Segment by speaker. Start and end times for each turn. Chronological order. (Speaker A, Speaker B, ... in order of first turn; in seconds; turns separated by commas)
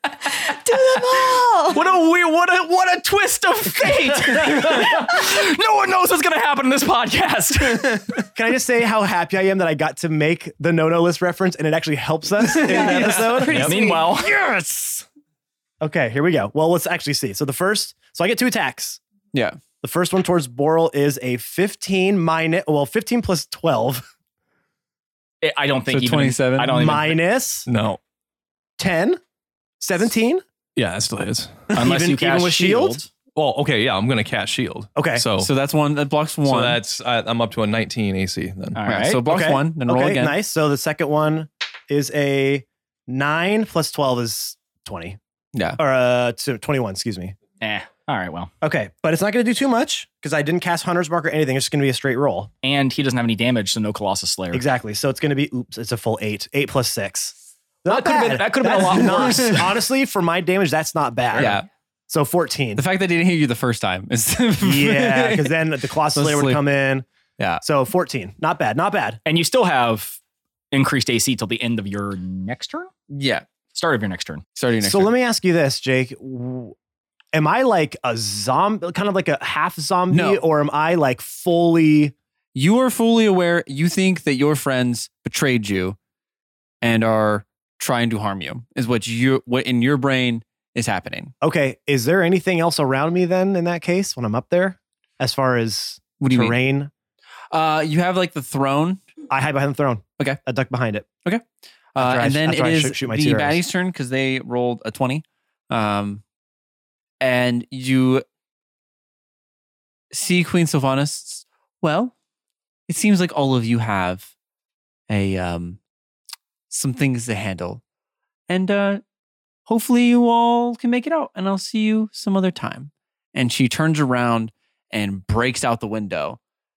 Speaker A: 0.3-1.8, Speaker B: 1.7-8.1, Speaker C: 8.3-15.0, Speaker A: 12.6-14.2, Speaker B: 13.4-14.3, Speaker C: 15.8-19.0, Speaker D: 19.3-19.6, Speaker C: 19.8-24.0, Speaker B: 25.4-27.2, Speaker D: 25.9-26.8, Speaker C: 26.7-27.7, Speaker E: 27.7-28.0, Speaker C: 28.8-29.2, Speaker C: 29.8-30.4, Speaker E: 30.7-31.6, Speaker B: 31.7-33.1, Speaker C: 31.8-33.0, Speaker E: 33.3-35.5, Speaker C: 34.9-35.2, Speaker D: 35.4-36.8, Speaker E: 36.4-38.8, Speaker B: 38.8-39.2, Speaker D: 38.9-40.3, Speaker C: 39.3-45.2, Speaker D: 45.5-45.8, Speaker C: 45.8-47.4, Speaker B: 47.6-48.5, Speaker C: 48.6-52.5, Speaker B: 52.6-54.6, Speaker C: 54.5-61.6, Speaker B: 57.9-59.7, Speaker D: 61.3-61.6, Speaker C: 62.1-62.8, Speaker D: 62.8-65.6, Speaker C: 64.6-67.0, Speaker D: 66.1-66.6, Speaker C: 67.6-69.2, Speaker B: 69.2-70.2, Speaker B: 70.7-72.9, Speaker D: 73.1-73.5, Speaker B: 73.7-74.4, Speaker D: 74.5-75.1, Speaker C: 74.8-76.7, Speaker C: 77.3-82.1, Speaker D: 80.1-80.4, Speaker D: 82.5-86.0, Speaker D: 86.8-91.3, Speaker C: 91.4-96.9, Speaker D: 96.2-96.6, Speaker D: 97.5-99.0, Speaker C: 99.3-101.1, Speaker D: 101.2-106.2, Speaker C: 102.0-103.6, Speaker D: 107.2-108.2, Speaker D: 110.1-112.1, Speaker D: 112.9-114.3, Speaker D: 115.1-115.8, Speaker D: 116.7-117.8, Speaker D: 118.5-119.0, Speaker D: 119.7-126.4